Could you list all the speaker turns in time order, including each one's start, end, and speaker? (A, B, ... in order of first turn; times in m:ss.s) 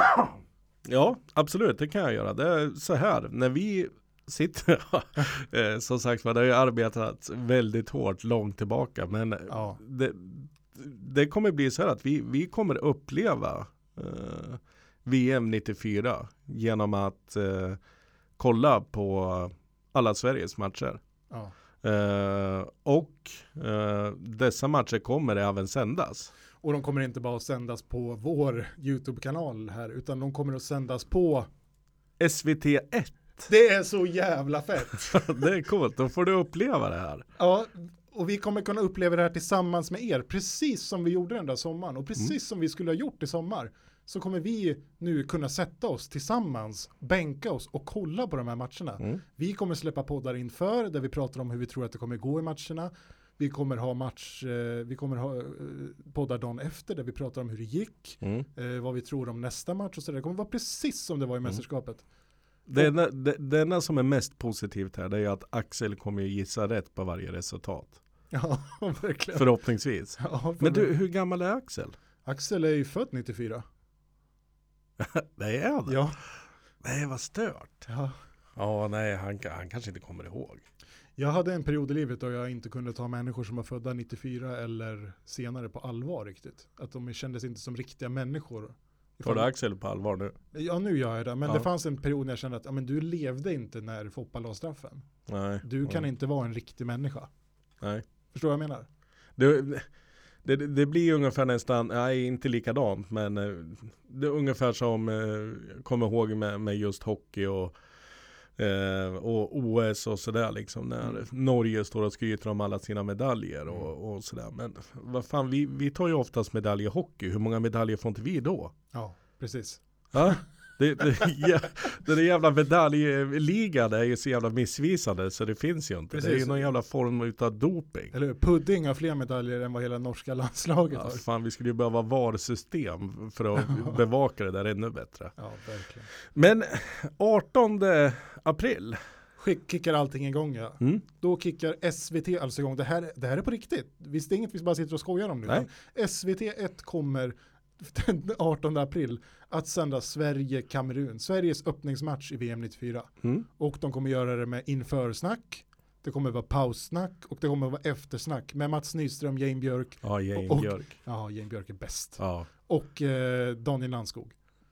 0:00.8-0:17.8 A
0:09.5-0:09.8 B
0:18.4-0:21.0 A
0:21.8-0:26.3 A
0:26.6-0:31.5 B
0:32.2-0:33.4 A
0:33.4-0:35.4 B
0:35.1-0:37.3 A
0:37.4-1:02.0 B
0:58.2-0:58.4 A
1:02.7-1:08.0 A
1:08.3-1:09.5 B
1:09.4-1:12.0 A
1:10.2-1:10.9 B
1:12.2-1:13.6 B
1:15.0-1:16.1 A
1:15.9-1:16.2 B
1:16.8-1:17.9 A
1:17.9-1:18.2 B
1:18.6-1:20.6 A
1:21.2-1:29.5 B
1:29.2-1:30.4 A
1:30.5-1:35.1 B
1:35.3-1:36.0 A
1:35.6-1:37.3 B
1:38.3-1:38.9 B
1:39.4-1:39.9 A
1:40.4-1:47.8 A
1:48.6-1:58.7 A
1:58.9-2:00.4 B
2:00.1-2:08.1 A
2:06.1-2:06.7 B
2:08.1-2:11.2 B
2:10.9-2:15.4 A
2:13.7-2:14.0 B
2:15.4-2:16.1 B
2:16.3-2:19.0 A
2:19.4-2:44.4 B
2:40.0-2:41.0 A
2:42.2-2:42.5 A